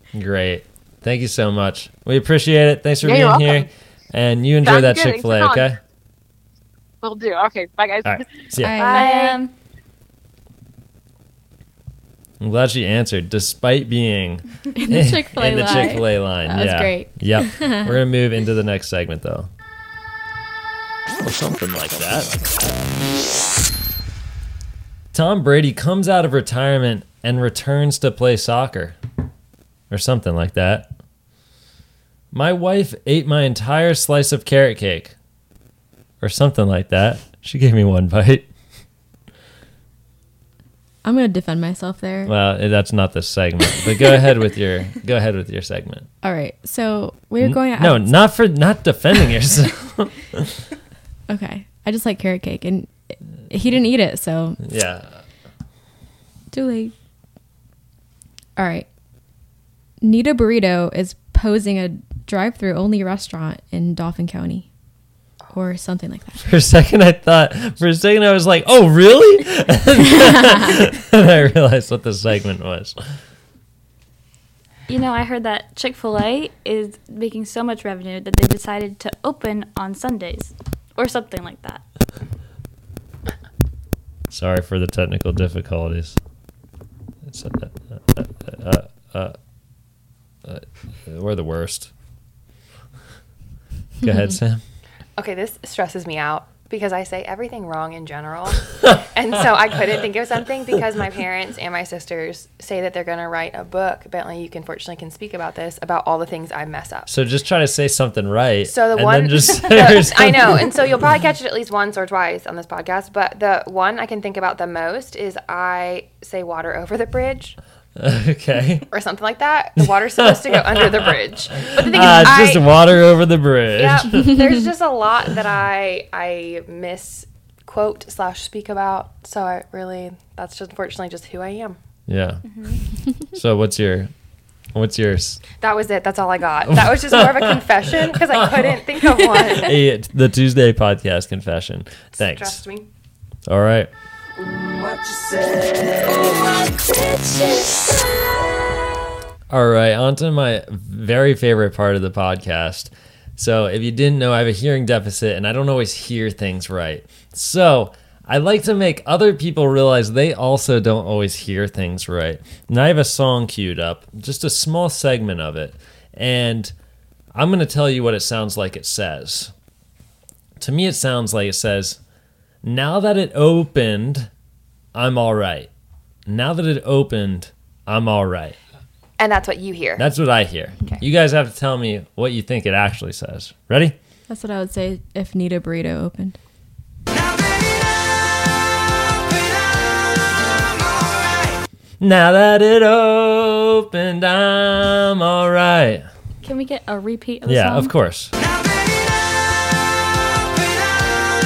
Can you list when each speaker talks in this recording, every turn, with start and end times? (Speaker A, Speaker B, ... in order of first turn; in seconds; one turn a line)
Speaker A: 0.1-5.8
Speaker B: 3.0-3.7
Speaker B: 4.6-5.7
Speaker B: 7.0-8.5
Speaker A: 8.0-8.8
Speaker C: 8.6-9.3
Speaker D: 8.8-9.5
Speaker E: 8.8-9.3
Speaker A: 12.4-19.5
Speaker C: 14.7-18.0
Speaker A: 21.2-22.8
Speaker A: 25.1-29.0
Speaker A: 29.9-30.9
Speaker A: 32.3-35.1
Speaker A: 36.2-38.5
Speaker C: 41.0-42.3
Speaker A: 42.2-46.1
Speaker C: 46.2-48.2
Speaker A: 47.4-50.6
Speaker C: 51.3-54.6
Speaker A: 54.6-55.2
Speaker C: 56.5-56.9
Speaker C: 58.6-58.9
Speaker C: 60.0-64.7
Speaker C: 65.5-66.5
Speaker A: 66.4-73.0
Speaker C: 70.2-70.5
Speaker D: 74.9-81.8
Speaker A: 84.3-86.2
Speaker A: 87.2-89.3
Speaker A: 90.4-91.9
Speaker A: 94.0-94.6
Speaker E: 95.2-107.1
Speaker A: 107.1-110.7
Speaker E: 108.7-117.6
Speaker A: 118.0-118.9
Speaker E: 118.9-122.7
Speaker A: 120.2-121.1
Speaker A: 121.7-124.4
Speaker E: 123.8-131.8
Speaker A: 132.1-132.4
Speaker D: 132.4-132.8
Speaker A: 133.3-134.1
Speaker A: 134.7-135.4
Speaker E: 135.6-139.8
Speaker A: 136.7-137.6
Speaker A: 139.3-142.6
Speaker E: 142.2-142.9
Speaker A: 143.5-143.9
Speaker A: 149.5-166.7
Speaker A: 167.3-169.5
Speaker A: 170.6-172.0
Speaker A: 172.6-174.3
Speaker A: 174.9-175.7
Speaker A: 176.3-178.6
Speaker E: 179.2-180.1
Speaker A: 180.0-183.9
Speaker C: 184.3-186.4
Speaker A: 192.0-196.1
Speaker D: 196.4-197.9
Speaker A: 197.4-198.3